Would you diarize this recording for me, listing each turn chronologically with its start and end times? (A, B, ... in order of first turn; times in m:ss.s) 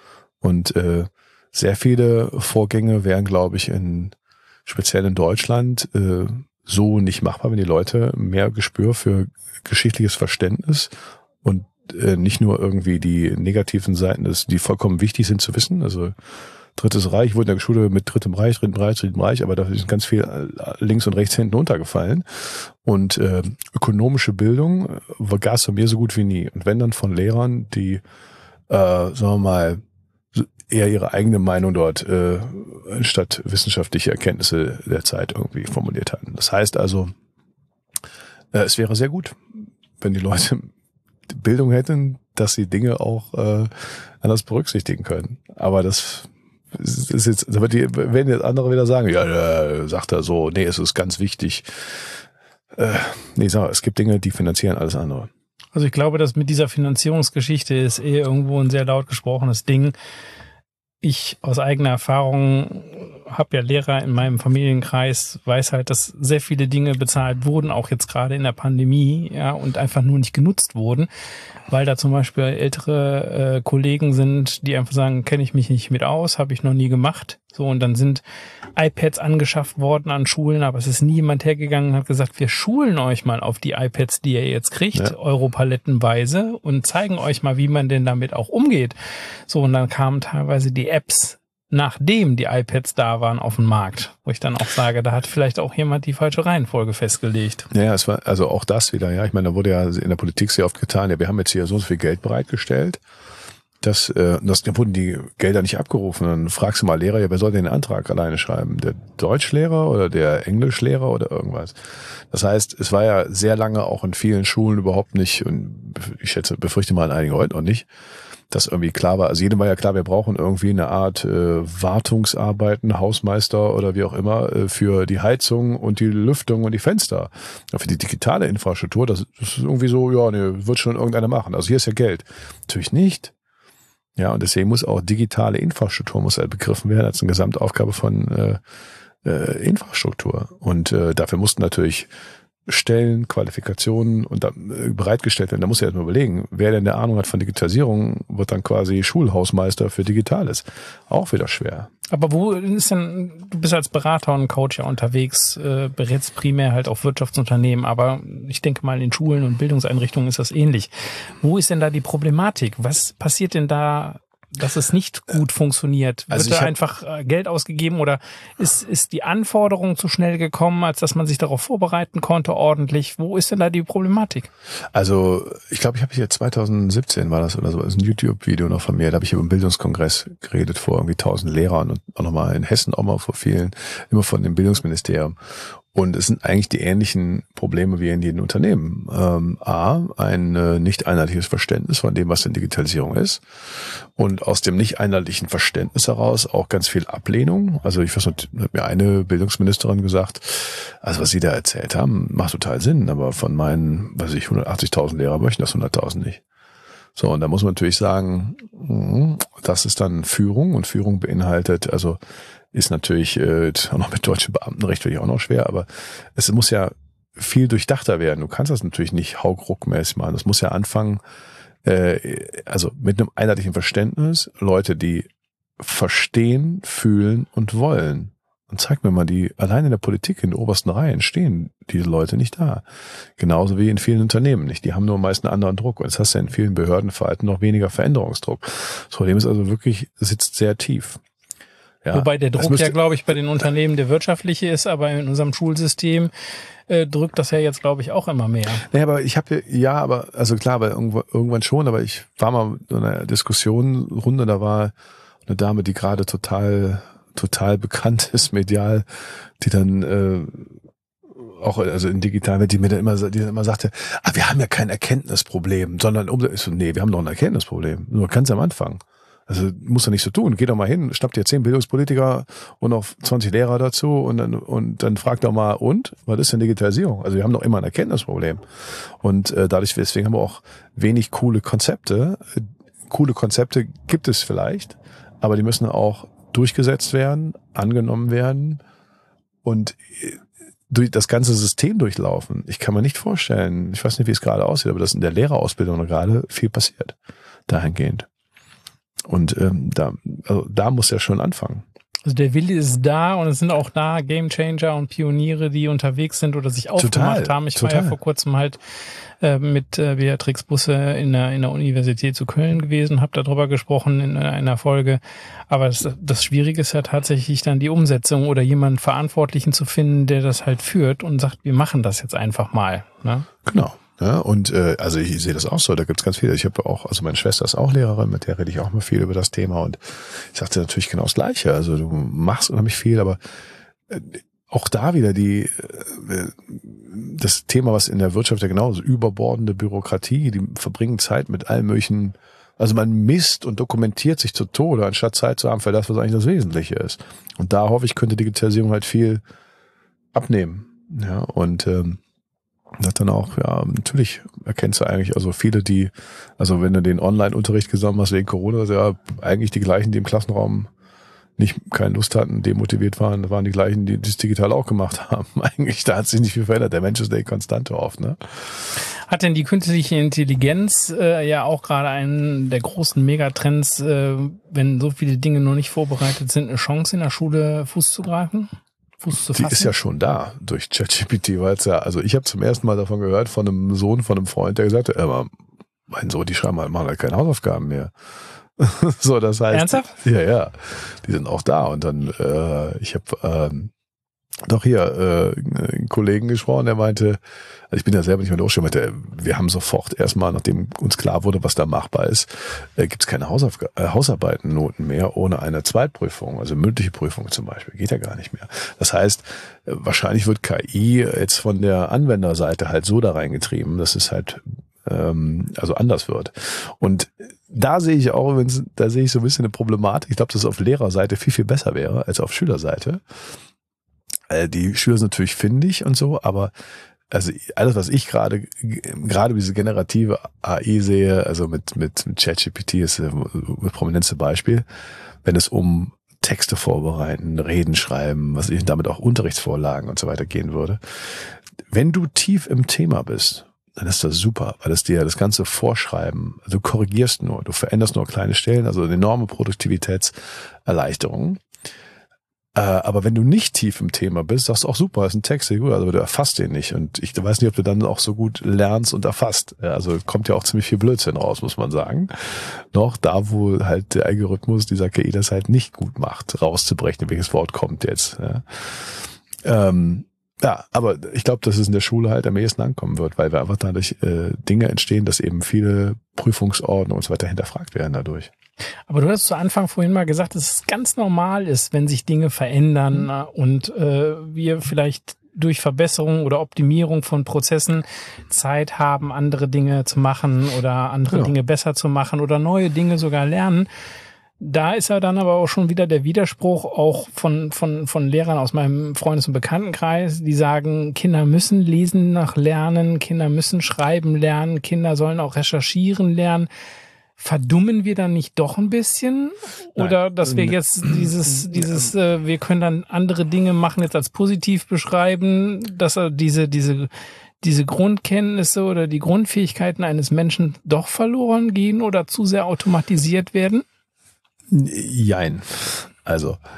0:00.4-0:16.1 A
0:16.8-0:28.0 A
0:28.7-0:29.8 A
0:30.3-0:37.1 A
0:38.5-0:40.7 A
0:41.3-0:51.7 A
0:52.8-0:55.3 A
0:55.8-1:00.0 B
1:01.0-1:11.1 B
1:11.7-1:18.2 B
1:18.8-1:29.0 B
1:29.5-1:37.7 B
1:37.7-1:43.0 A
1:43.8-1:51.8 A
1:52.3-1:57.9 A
1:58.5-2:13.3 A
2:14.2-2:18.6 A
2:19.2-2:22.1 A
2:22.7-2:31.9 A
2:32.1-2:54.5 B
2:46.3-2:46.7 A
2:54.9-3:05.4 A
3:05.9-3:26.4 A
3:27.2-3:32.2 A
3:32.7-3:41.2 A
3:41.8-3:45.3 A
3:45.8-3:52.8 A
3:53.4-4:01.2 A
4:02.0-4:03.0 A
4:02.1-4:06.3 B
4:06.9-4:08.8 B
4:08.9-4:14.9 A
4:15.5-4:19.0 A
4:19.6-4:20.8 A
4:21.3-4:38.6 A
4:39.2-4:48.8 A
4:49.6-4:57.2 A
4:57.7-4:58.3 A
4:59.3-5:01.8 A
5:02.2-5:08.8 B
5:07.0-5:08.2 A
5:09.4-5:23.5 B
5:23.7-5:33.4 A
5:34.1-5:49.4 A
5:50.3-5:52.2 A
5:53.0-6:00.9 A
6:01.6-6:08.4 A
6:09.3-6:18.7 B
6:19.2-6:19.9 B
6:19.5-6:25.5 A
6:26.1-6:28.1 A
6:28.8-6:33.9 A
6:29.7-6:30.2 B
6:34.6-6:37.4 A
6:37.9-7:03.2 A
7:04.5-7:06.7 A
7:07.3-7:14.8 A
7:15.4-7:31.6 A
7:32.8-7:58.5 A
7:59.1-8:13.9 B
8:14.6-8:26.7 B
8:27.4-8:37.1 B
8:30.0-8:31.8 A
8:37.6-8:43.8 B
8:44.7-8:46.6 A